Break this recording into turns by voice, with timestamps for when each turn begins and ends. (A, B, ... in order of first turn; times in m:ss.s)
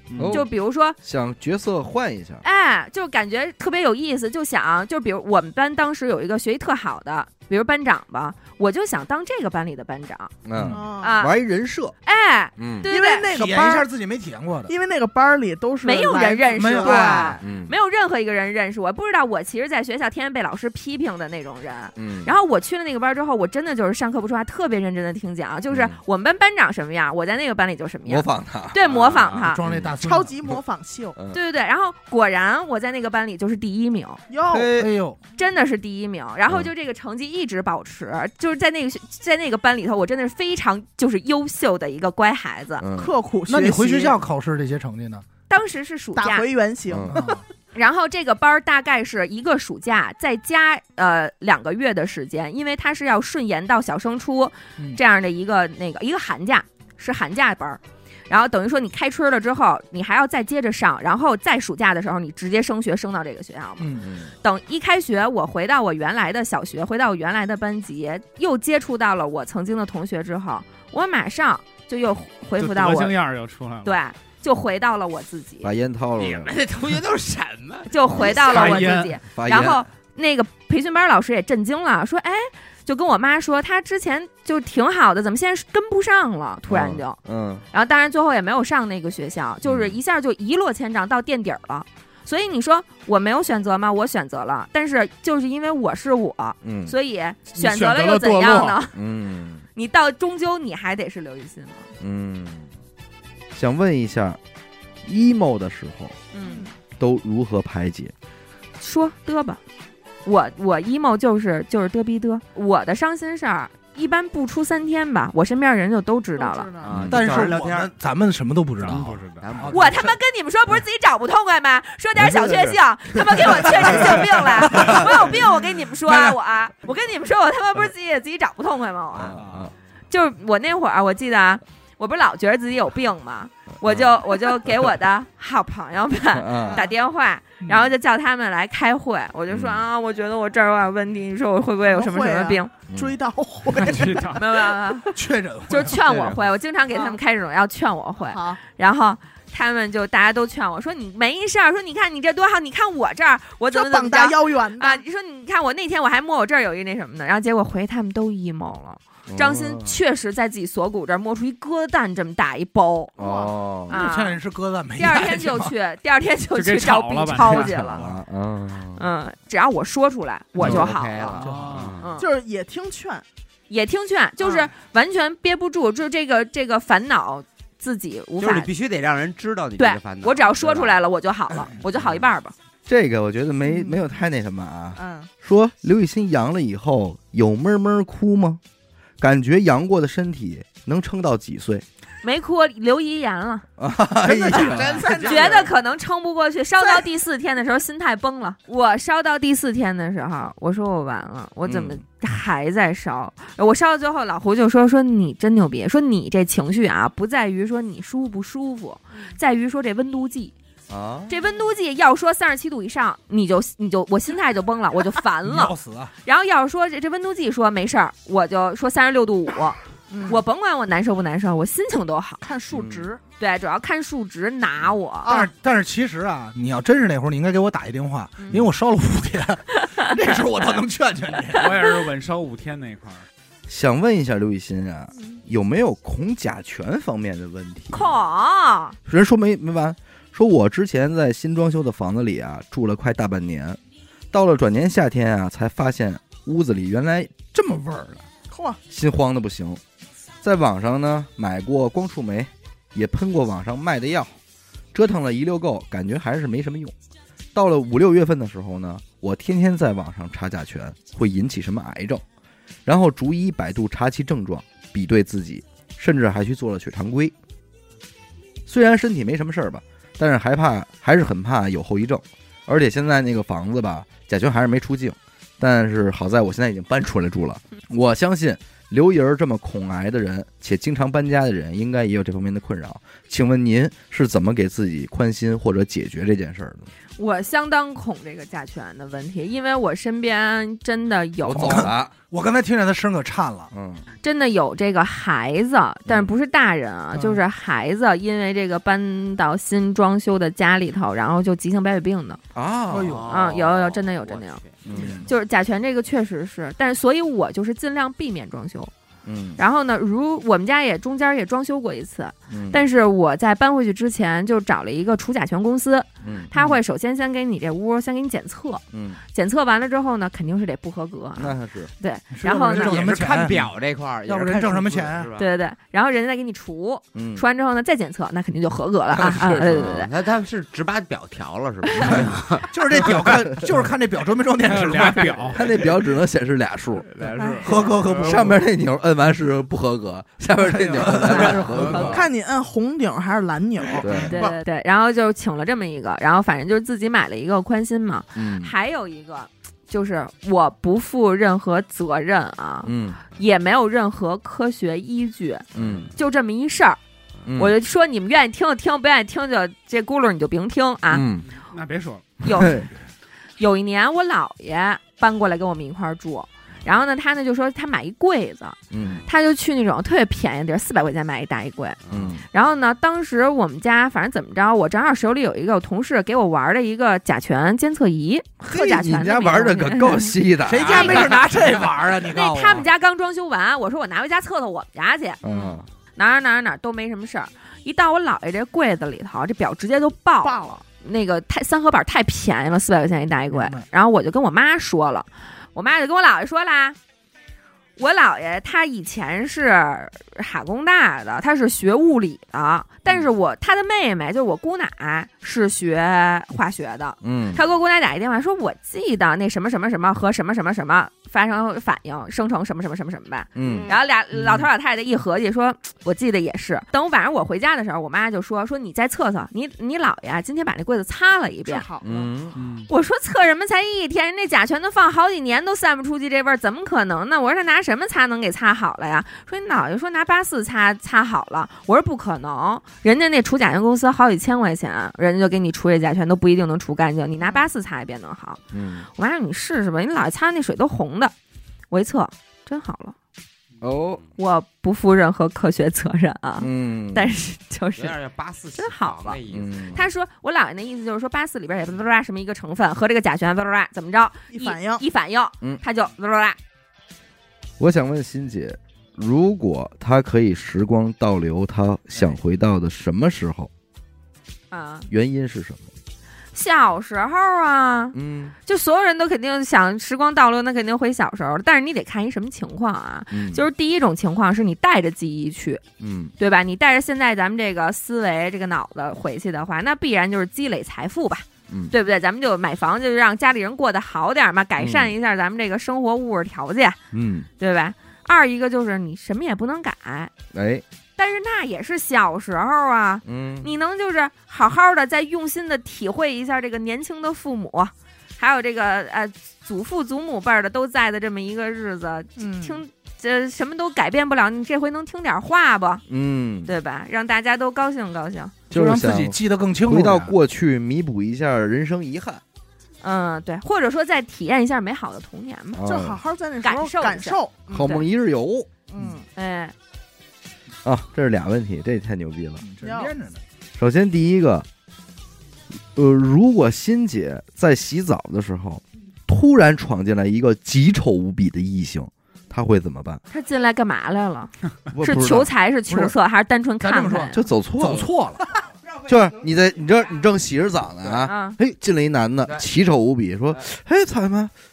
0:00.1-0:00.4 A
0:00.2-0:02.4 B
0:00.3-0:01.0 C
0:02.4-0:10.3 C
0:10.4-0:12.0 B
0:10.7-0:11.1 D
0:11.0-0:11.3 C
0:12.0-0:13.3 C
0:12.6-0:12.9 B
0:12.9-0:13.9 D
0:13.3-0:14.7 E
0:14.7-0:17.4 D
0:15.8-0:29.6 C
0:16.5-0:17.4 E
0:17.4-0:17.7 B
0:22.0-0:22.3 B
0:25.7-0:26.0 B
0:28.0-0:28.9 B
0:29.3-0:30.4 E
0:29.6-0:29.9 B
0:30.0-0:31.2 D
0:31.3-0:34.2 C
0:34.3-0:34.7 D
0:34.4-0:34.9 B
0:34.7-0:35.2 E
0:35.4-0:42.8 C
0:42.8-0:43.1 B
0:43.0-0:44.2 D
0:43.5-0:45.2 E
0:45.5-0:46.5 C
0:46.2-0:47.4 D
0:46.9-0:47.2 B
0:47.1-0:47.4 E
0:47.7-1:03.9 C
1:03.8-1:04.1 E
1:04.0-1:04.3 B
1:04.4-1:13.1 C
1:12.6-1:14.0 A
1:13.8-1:15.7 C
1:15.6-1:16.5 B
1:16.2-1:18.0 F
1:17.9-1:27.2 C
1:18.0-1:19.8 B
1:18.2-1:19.2 A
1:26.7-1:27.6 B
1:27.7-1:39.0 C
1:29.6-1:30.0 B
1:36.6-1:36.9 B
1:37.5-1:38.8 A
1:38.9-1:39.6 B
1:39.8-1:41.9 C
1:42.0-1:42.7 B
1:43.5-1:44.4 B
1:45.0-1:46.2 B
1:46.3-1:46.7 C
1:46.4-1:46.7 D
1:47.0-1:48.1 B
1:48.8-1:49.6 C
1:50.2-1:56.7 C
1:56.4-1:57.1 D
1:56.8-1:57.9 F
1:56.9-1:57.2 B
1:57.1-2:00.1 E
1:58.8-1:59.4 A
1:58.9-2:00.0 F
1:59.7-2:09.4 C
2:02.2-2:02.8 B
2:03.4-2:04.2 B
2:03.9-2:04.2 E
2:04.7-2:05.1 B
2:04.7-2:05.4 E
2:06.1-2:06.4 E
2:09.2-2:09.7 B
2:09.4-2:09.6 E
2:10.1-2:22.7 C
2:13.8-2:14.1 B
2:16.3-2:16.8 B
2:16.6-2:16.9 D
2:19.5-2:19.8 B
2:21.9-2:24.6 D
2:22.9-2:23.2 B
2:23.8-2:24.4 A
2:24.3-2:25.2 C
2:25.1-2:26.0 E
2:25.7-2:43.2 C
2:26.0-2:26.4 F
2:26.9-2:27.2 D
2:28.3-2:28.6 D
2:33.7-2:35.0 D
2:39.3-2:40.0 B
2:43.2-2:44.0 B
2:43.2-2:43.5 D
2:43.9-2:44.4 C
2:43.9-2:45.7 E
2:45.0-2:48.0 C
2:46.5-2:47.9 A
2:47.4-2:49.0 B
2:47.9-2:48.2 E
2:49.0-2:51.4 C
2:50.6-2:52.1 F
2:51.4-2:52.0 A
2:51.4-2:51.7 E
2:52.0-2:52.3 C
2:52.2-2:53.2 D
2:53.7-2:58.7 C
2:58.4-3:01.0 F
2:59.8-3:02.5 C
3:02.8-3:08.6 B
3:03.6-3:04.0 D
3:05.0-3:05.3 D
3:09.2-3:11.8 B
3:12.2-3:13.6 C
3:13.8-3:15.1 B
3:14.4-3:15.7 F
3:14.5-3:15.7 D
3:15.2-3:30.5 C
3:21.6-3:22.0 B
3:30.9-3:31.3 B
3:31.3-3:42.4 C
3:35.4-3:36.1 E
3:40.1-3:40.4 D
3:42.4-3:43.2 D
3:42.7-3:43.1 B
3:43.4-3:45.4 C
3:45.2-3:51.8 E
3:51.5-3:53.2 A
3:53.7-3:58.1 B
3:57.9-3:59.0 C
3:59.0-4:03.8 B
4:04.3-4:08.2 B
4:08.5-4:08.8 D
4:08.9-4:09.8 B
4:10.4-4:14.4 B
4:14.9-4:16.9 B
4:17.5-4:22.2 B
4:22.8-4:27.3 B
4:28.6-4:46.9 B
4:47.2-4:51.9 C
4:51.4-4:52.1 B
4:51.5-4:53.7 E
4:53.7-4:54.0 B
4:54.2-5:02.4 C
5:02.5-5:03.3 B
5:02.9-5:03.3 E
5:03.0-5:05.1 F
5:03.3-5:04.6 C
5:04.8-5:05.3 B
5:04.9-5:05.2 E
5:05.2-5:08.9 C
5:09.2-5:09.6 B
5:09.6-5:23.0 C
5:12.5-5:12.8 B
5:16.2-5:16.5 B
5:18.9-5:19.2 B
5:21.4-5:21.9 B
5:22.3-5:23.7 E
5:22.7-5:25.5 F
5:24.2-5:25.3 E
5:25.4-5:30.1 C
5:27.1-5:27.4 B
5:29.1-5:30.0 B
5:29.7-5:32.7 F
5:32.7-5:35.6 E
5:34.7-5:35.6 A
5:35.5-5:37.1 B
5:37.1-5:37.7 A
5:37.4-5:37.7 D
5:37.6-5:38.6 E
5:38.2-5:42.2 B
5:40.6-5:42.1 E
5:41.3-5:44.1 D
5:44.0-5:44.4 B
5:44.0-5:44.5 E
5:44.3-5:57.0 C
5:48.3-5:48.7 B
5:52.8-5:53.2 B
5:55.7-5:56.1 B
5:55.8-5:56.1 F
5:57.4-5:57.7 B
5:57.6-6:01.2 C
6:01.1-6:01.4 B
6:01.7-6:02.3 A
6:02.4-6:02.8 C
6:02.6-6:02.9 B
6:03.6-6:12.0 C
6:08.9-6:09.2 B
6:12.1-6:12.3 F
6:12.1-6:12.4 B
6:12.5-6:21.4 C
6:18.6-6:21.2 B
6:20.6-6:22.8 E
6:20.8-6:21.2 F
6:22.3-6:25.4 C
6:25.4-6:25.9 B
6:25.5-6:25.8 D
6:26.2-6:37.0 C
6:30.4-6:30.8 D
6:33.5-6:33.8 E
6:38.0-7:01.9 C
6:47.2-6:47.6 B
6:53.6-6:53.9 B
7:01.7-7:02.3 D
7:02.0-7:02.6 B
7:02.5-7:02.9 A
7:02.9-7:18.6 C
7:18.7-7:19.1 B
7:19.1-7:21.3 C
7:21.9-7:23.2 C
7:23.8-7:24.2 B
7:24.4-7:28.2 C
7:26.6-7:27.3 B
7:28.0-7:30.0 F
7:28.8-7:29.4 C
7:29.5-7:30.0 B
7:29.9-7:36.6 C
7:34.5-7:35.0 D
7:37.8-7:43.7 B
7:44.7-7:45.1 C
7:45.1-7:45.9 B
7:46.5-7:55.8 C
7:48.1-7:48.5 B
7:53.3-7:53.6 B
7:56.0-7:56.3 B
7:56.4-8:07.0 C
8:04.8-8:05.1 B
8:07.1-8:07.5 B
8:07.6-8:10.3 C
8:10.5-8:10.8 B
8:11.2-8:26.0 C
8:13.2-8:13.7 B
8:22.4-8:22.8 D
8:26.1-8:26.7 B
8:26.6-8:28.5 C
8:28.7-8:30.3 E
8:28.7-8:32.4 B
8:33.0-8:35.8 C
8:35.7-8:36.2 B
8:35.8-8:38.0 D
8:36.6-8:38.0 C
8:37.7-8:38.7 B
8:38.9-8:39.2 D
8:39.3-8:39.7 C
8:40.8-8:42.6 B
8:42.6-8:43.4 E
8:42.8-8:43.1 D
8:43.8-8:44.7 B
8:45.9-8:53.2 B
8:53.3-8:57.4 C
8:54.9-8:55.5 B
8:55.9-8:56.1 E
8:56.8-8:58.6 E
8:57.3-8:58.1 B
8:59.0-9:04.5 B
9:01.2-9:01.6 C